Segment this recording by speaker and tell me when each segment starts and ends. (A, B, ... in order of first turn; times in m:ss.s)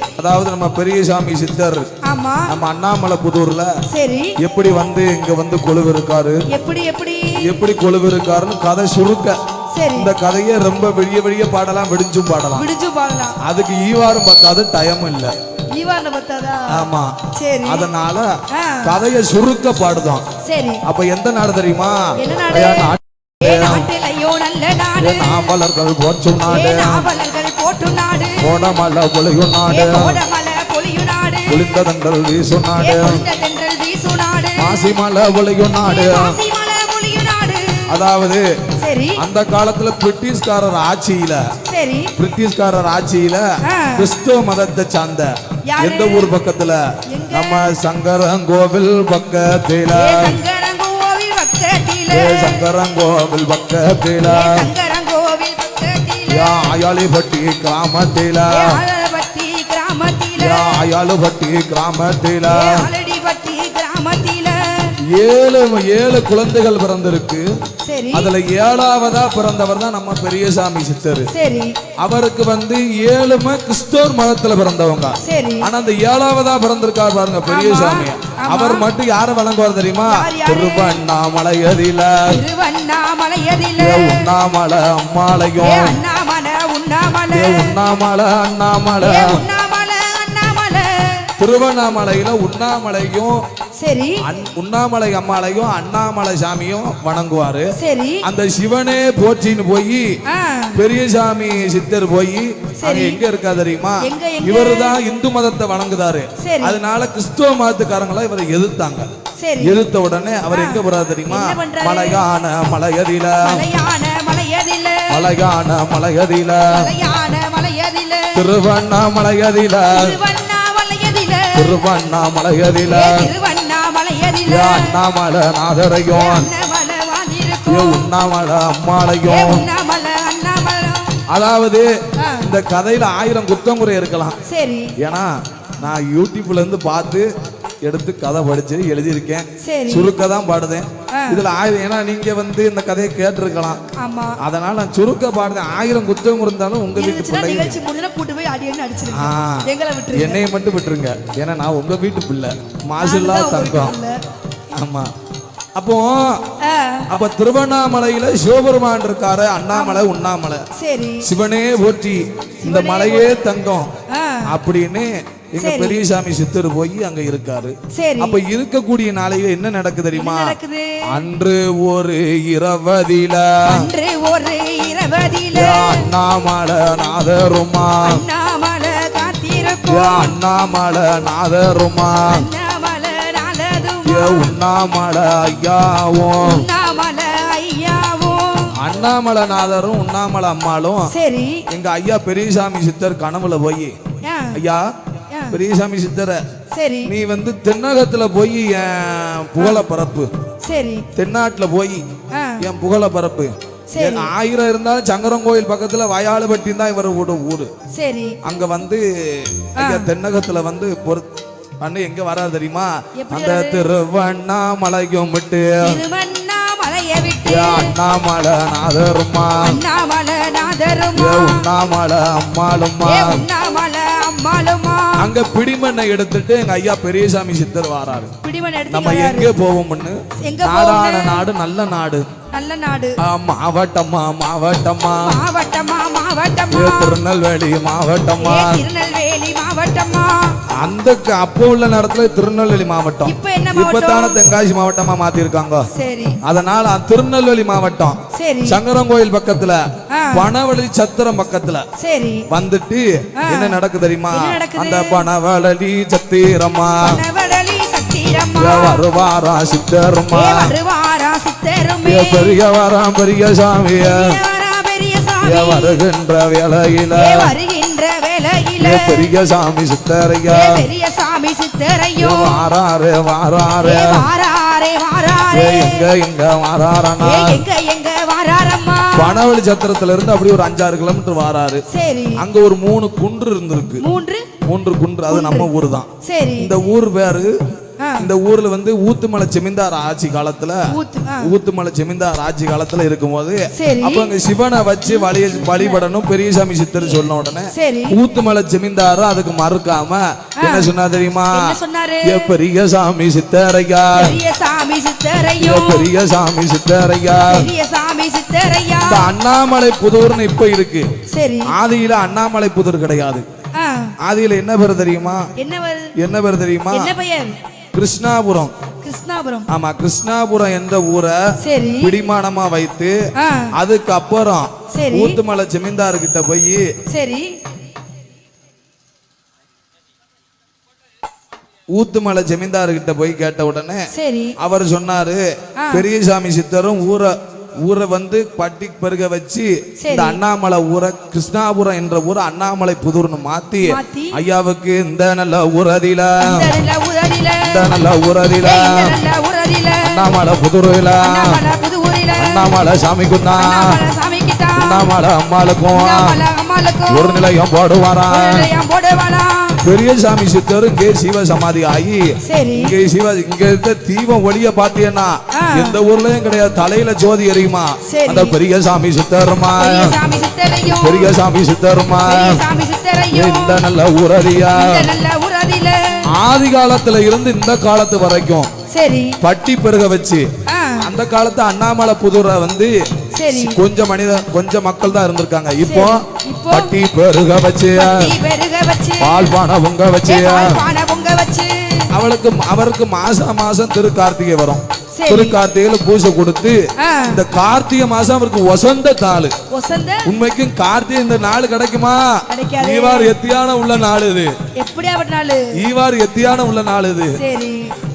0:00.2-0:01.8 A
0:02.0-0:02.5 B
0:02.5-0:03.7 A
0:03.9-0:04.4 B
0:04.4-0:06.4 A
0:06.5-0:07.4 B
0:07.4-0:09.4 A
0:09.7-0:10.1 B
0:09.9-0:12.6 A
0:12.5-0:13.4 B
0:13.4-0:15.3 A
0:15.7-0:17.9 B
0:16.7-0:18.3 A
0:18.5-0:18.9 B
0:18.8-0:20.2 A
0:20.4-0:20.8 B
0:20.8-0:23.9 A
0:22.2-0:25.5 B
0:25.0-0:27.1 A
0:26.4-0:28.6 B
0:28.4-0:30.2 A
0:29.7-0:31.7 B
0:31.5-0:33.2 A
0:32.8-0:35.0 B
0:34.6-0:36.4 A
0:35.7-0:38.0 B
0:37.9-0:38.4 A
0:38.8-0:39.2 B
0:39.2-0:41.4 A
0:41.6-0:42.1 B
0:42.2-0:43.4 A
0:43.6-0:44.1 B
0:43.9-0:50.4 A
0:45.6-0:46.3 B
0:47.1-0:47.7 B
0:49.9-0:52.6 B
0:52.1-0:54.6 A
0:54.2-0:56.7 B
0:56.3-0:58.8 A
0:58.5-1:00.8 B
1:00.4-1:02.8 A
1:02.4-1:04.9 B
1:05.1-1:07.4 A
1:07.8-1:08.3 B
1:08.1-1:11.3 A
1:11.3-1:11.8 B
1:12.0-1:22.4 A
1:15.2-1:15.7 B
1:17.4-1:18.8 B
1:20.0-1:21.0 B
1:22.3-1:24.3 B
1:23.8-1:26.0 A
1:25.6-1:27.8 B
1:27.3-1:29.4 A
1:29.0-1:31.3 B
1:31.4-1:33.4 A
1:33.8-1:34.2 B
1:34.2-1:37.7 A
1:37.8-1:38.2 B
1:38.2-1:40.0 A
1:40.2-1:40.8 B
1:40.7-1:53.6 A
1:42.8-1:43.2 B
1:44.0-1:45.0 B
1:46.4-1:46.8 B
1:49.4-1:49.8 B
1:50.5-1:52.2 B
1:53.4-1:55.3 B
1:55.1-1:56.9 A
1:56.7-1:58.5 B
1:58.3-2:00.1 A
1:59.9-2:01.8 B
2:01.5-2:03.3 A
2:02.9-2:05.0 B
2:04.5-2:06.5 A
2:06.1-2:08.0 B
2:07.7-2:09.7 A
2:09.2-2:11.2 B
2:11.3-2:14.4 A
2:12.2-2:12.5 B
2:14.4-2:15.0 B
2:15.0-2:17.2 A
2:17.8-2:23.8 A
2:19.6-2:20.2 B
2:21.1-2:21.4 B
2:23.9-2:24.4 B
2:24.4-2:27.8 A
2:26.9-2:30.4 B
2:29.1-2:33.9 A
2:33.0-2:34.2 B
2:34.7-2:35.1 A
2:35.8-2:36.4 A
2:36.6-2:37.1 B
2:37.1-2:40.6 A
2:39.7-2:40.1 B
2:40.7-2:41.3 B
2:41.2-2:43.8 A
2:42.6-2:43.4 B
2:44.1-2:44.5 B
2:44.5-2:50.6 A
2:45.6-2:46.0 B
2:47.9-2:48.4 B
2:50.1-2:51.2 B
2:51.1-2:53.9 A
2:53.6-2:56.0 B
2:55.5-2:58.2 A
2:58.0-3:00.3 B
2:59.9-3:02.4 A
3:02.3-3:04.5 B
3:04.0-3:06.6 A
3:06.4-3:08.7 B
3:08.8-3:11.1 A
3:11.1-3:11.6 B
3:11.7-3:13.9 A
3:14.2-3:14.6 B
3:14.5-3:14.9 A
3:15.3-3:15.6 B
3:15.5-3:16.4 A
3:16.7-3:17.1 B
3:17.0-3:20.3 A
3:20.6-3:21.1 B
3:21.1-3:22.0 A
3:22.3-3:22.6 B
3:22.6-3:27.7 A
3:23.9-3:24.3 B
3:27.9-3:28.4 B
3:28.4-3:31.3 A
3:29.8-3:30.1 B
3:31.8-3:36.0 A
3:33.2-3:33.9 B
3:35.8-3:37.9 B
3:37.5-3:39.8 A
3:39.6-3:41.7 B
3:41.1-3:43.4 A
3:43.0-3:45.3 B
3:45.2-3:48.3 A
3:48.4-3:49.5 B
3:48.9-3:52.2 A
3:50.4-3:51.4 B
3:52.5-3:53.2 B
3:53.2-3:55.3 A
3:55.2-3:57.2 B
3:56.7-3:58.8 A
3:58.4-4:00.6 B
4:00.7-4:05.8 A
4:03.2-4:04.4 B
4:05.9-4:06.4 B
4:06.4-4:09.8 A
4:08.3-4:08.8 B
4:10.1-4:10.4 B
4:10.3-4:11.8 A
4:12.0-4:12.4 B
4:12.5-4:17.2 A
4:13.4-4:13.8 B
4:14.3-4:15.3 B
4:17.0-4:19.0 B
4:18.6-4:20.7 A
4:20.3-4:22.6 B
4:22.0-4:24.3 A
4:24.0-4:26.0 B
4:25.4-4:27.5 A
4:27.1-4:29.2 B
4:28.8-4:30.8 A
4:30.5-4:32.7 B
4:32.2-4:34.2 A
4:33.8-4:36.1 B
4:35.5-4:37.6 A
4:37.2-4:39.4 B
4:39.2-4:41.8 A
4:41.9-4:42.4 B
4:42.4-4:44.0 A
4:44.0-4:44.5 B
4:44.6-4:47.5 A
4:45.3-4:45.7 B
4:46.2-4:46.8 B
4:48.0-4:48.3 B
4:48.2-4:50.9 A
4:50.9-4:51.5 B
4:51.4-5:04.4 A
4:53.7-4:54.4 B
4:55.0-4:56.0 B
4:57.7-4:58.2 B
5:00.6-5:00.9 B
5:01.5-5:02.5 B
5:04.1-5:06.1 B
5:05.6-5:07.7 A
5:07.4-5:09.4 B
5:09.0-5:11.1 A
5:11.3-5:11.7 B
5:11.7-5:13.4 A
5:13.7-5:14.1 B
5:14.2-5:15.4 A
5:15.6-5:16.1 B
5:16.2-5:17.1 A
5:16.9-5:17.6 B
5:18.0-5:18.7 A
5:19.0-5:19.7 B
5:19.7-5:21.4 A
5:21.6-5:22.1 B
5:22.0-5:23.1 A
5:23.4-5:23.7 B
5:23.7-5:26.8 A
5:24.9-5:25.4 B
5:27.1-5:27.6 B
5:32.0-5:34.1 A
5:34.1-5:34.6 B
5:34.6-5:37.3 A
5:35.8-5:36.0 B
5:37.8-5:46.7 A
5:40.0-5:40.4 B
5:43.8-5:44.4 B
5:46.4-5:47.9 B
5:47.6-5:49.1 A
5:48.6-5:50.2 B
5:50.0-5:51.6 A
5:51.2-5:52.8 B
5:52.4-5:54.0 A
5:53.6-5:55.1 B
5:54.8-5:56.4 A
5:55.9-5:57.4 B
5:57.1-5:58.7 A
5:58.3-5:59.8 B
5:59.8-6:02.2 A
6:02.4-6:02.9 B
6:02.7-6:10.2 A
6:05.5-6:06.0 B
6:08.0-6:08.6 B
6:09.8-6:11.3 B
6:11.0-6:12.6 A
6:12.2-6:13.8 B
6:13.3-6:15.0 A
6:14.6-6:16.2 B
6:16.3-6:18.7 A
6:18.9-6:19.4 B
6:19.4-6:20.4 A
6:20.7-6:21.1 B
6:21.0-6:22.9 A
6:23.3-6:23.8 B
6:23.5-6:28.3 A
6:25.8-6:27.0 B
6:27.9-6:29.6 B
6:29.2-6:30.8 A
6:30.2-6:32.1 B
6:32.1-6:39.5 A
6:35.2-6:35.6 B
6:37.0-6:37.4 B
6:39.7-6:40.3 B
6:40.2-6:42.2 A
6:42.5-6:43.3 B
6:42.8-6:44.5 A
6:44.8-6:45.8 B
6:45.7-6:47.3 A
6:47.4-6:47.9 B